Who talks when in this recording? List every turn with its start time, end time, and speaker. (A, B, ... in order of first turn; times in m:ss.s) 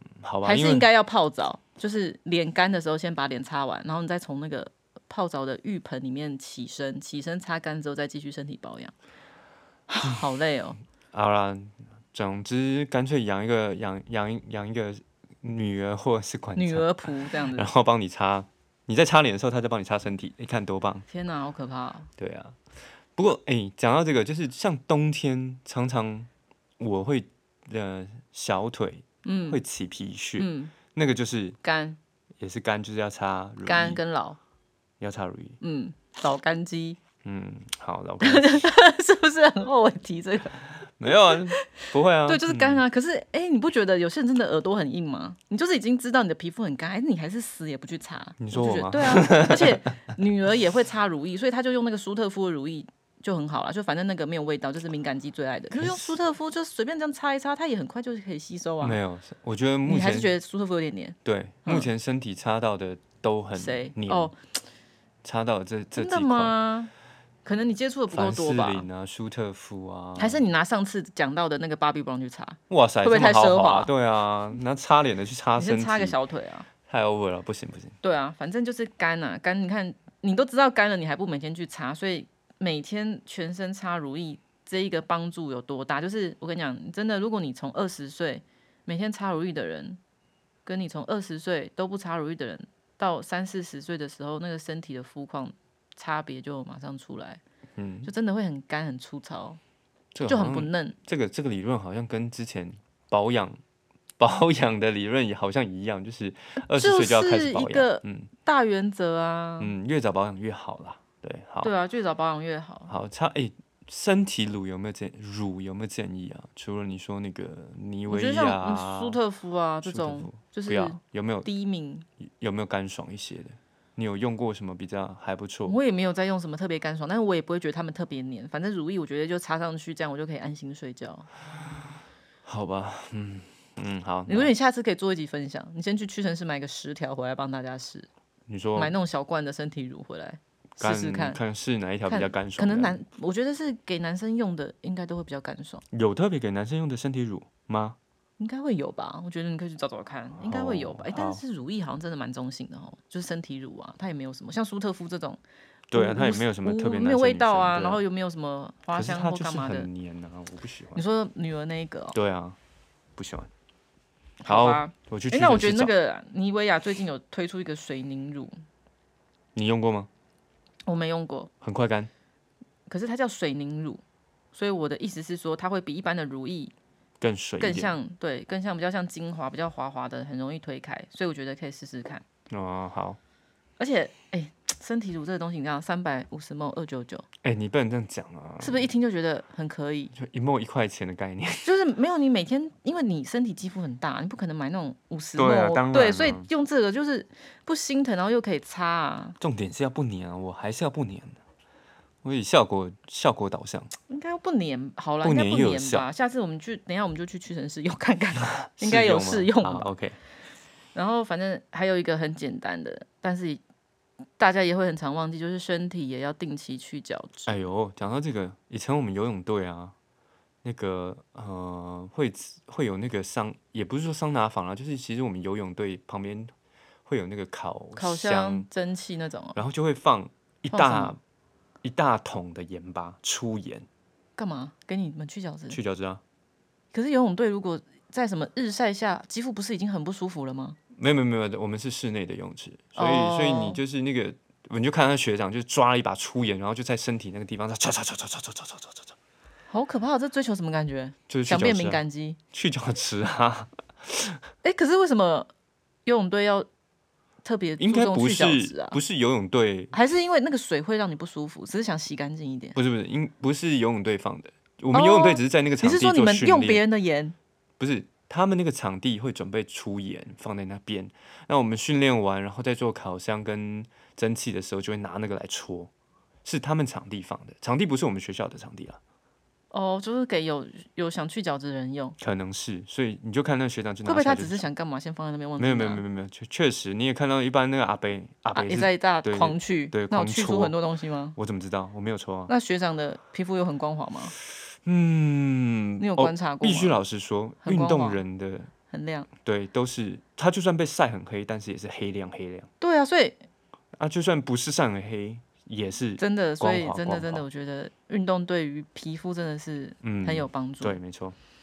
0:00.2-0:00.9 A
0:00.4-0:08.9 B
0:09.9-0:10.8 B
0:11.1-0:21.0 A
0:16.6-0:17.7 B
0:21.1-0:22.1 B
0:22.2-0:22.6 A
0:23.2-0:31.6 A
0:29.2-0:29.6 B
0:30.4-0:30.7 B
0:31.6-0:32.0 B
0:32.4-0:34.0 A
0:33.6-0:34.4 B
0:35.0-0:35.6 A
0:35.6-0:37.0 B
0:37.2-0:38.7 A
0:38.2-0:59.0 B
0:41.0-0:42.8 A
0:48.4-0:49.8 A
0:55.7-0:56.2 A
0:58.8-1:00.3 A
0:59.8-1:01.9 B
1:01.2-1:04.3 A
1:03.5-1:04.4 B
1:05.2-1:06.5 A
1:06.0-1:06.9 B
1:07.4-1:08.9 B
1:08.1-1:10.4 A
1:10.2-1:13.9 B
1:12.7-1:16.2 A
1:15.6-1:16.7 B
1:16.8-1:18.0 A
1:18.0-1:30.0 B
1:30.6-1:37.4 B
1:37.8-1:38.1 A
1:38.0-1:39.6 B
1:40.1-1:43.6 A
1:40.2-1:41.0 B
1:44.2-1:48.3 A
1:46.7-1:49.7 B
1:49.6-1:51.7 A
1:51.6-1:52.9 B
1:52.9-1:59.2 A
1:58.1-2:02.0 B
1:59.8-2:01.5 A
2:02.2-2:05.8 A
2:05.7-2:11.2 B
2:12.4-2:14.5 A
2:14.3-2:18.1 B
2:18.5-2:18.9 A
2:18.8-2:21.4 B
2:20.8-2:23.0 A
2:22.1-2:25.8 B
2:25.9-2:28.0 A
2:28.4-2:35.4 B
2:30.4-2:31.4 A
2:35.9-2:38.0 A
2:35.9-2:39.9 B
2:38.9-2:41.0 A
2:40.9-2:42.1 B
2:42.1-2:42.6 A
2:43.2-2:43.5 A
2:44.4-2:48.5 B
2:44.5-2:45.9 A
2:49.5-2:50.1 A
2:50.9-2:51.5 B
2:51.6-2:52.1 A
2:52.9-2:54.0 B
2:54.5-2:56.7 B
2:57.2-2:58.0 A
2:57.6-3:02.2 B
3:02.5-3:03.2 A
3:03.8-3:07.2 B
3:07.4-3:08.9 A
3:08.6-3:10.1 B
3:10.1-3:11.7 A
3:11.6-3:19.4 B
3:15.4-3:16.5 A
3:19.4-3:21.4 A
3:22.2-3:23.9 A
3:24.1-3:29.9 B
3:25.2-3:26.0 A
3:28.6-3:30.2 A
3:30.9-3:33.6 B
3:34.4-3:37.5 B
3:37.4-3:39.9 A
3:40.6-3:46.5 A
3:47.0-3:48.7 A
3:47.9-3:49.6 B
3:49.5-3:51.2 A
3:50.7-3:51.1 B
3:51.8-3:53.9 A
3:54.4-3:55.8 B
3:55.7-3:56.2 A
3:56.9-4:00.8 B
4:01.0-4:09.2 A
4:03.0-4:03.8 B
4:09.7-4:12.4 B
4:11.3-4:14.4 A
4:14.6-4:15.5 B
4:16.0-4:16.7 B
4:17.4-4:19.0 B
4:17.8-4:19.9 A
4:19.9-4:22.8 B
4:22.8-4:26.8 A
4:24.9-4:27.3 B
4:27.8-4:35.9 A
4:36.4-4:39.0 A
4:39.7-4:42.2 B
4:42.2-4:44.6 A
4:44.0-4:46.0 B
4:45.6-4:50.8 A
4:48.5-4:51.4 B
4:51.4-4:52.5 A
4:52.5-4:54.3 B
4:54.8-4:58.7 A
4:56.0-4:57.0 B
4:57.6-4:58.2 B
4:58.9-4:59.3 B
4:59.4-5:02.7 A
5:02.8-5:03.4 B
5:03.9-5:07.4 A
5:06.2-5:11.0 B
5:10.0-5:11.4 A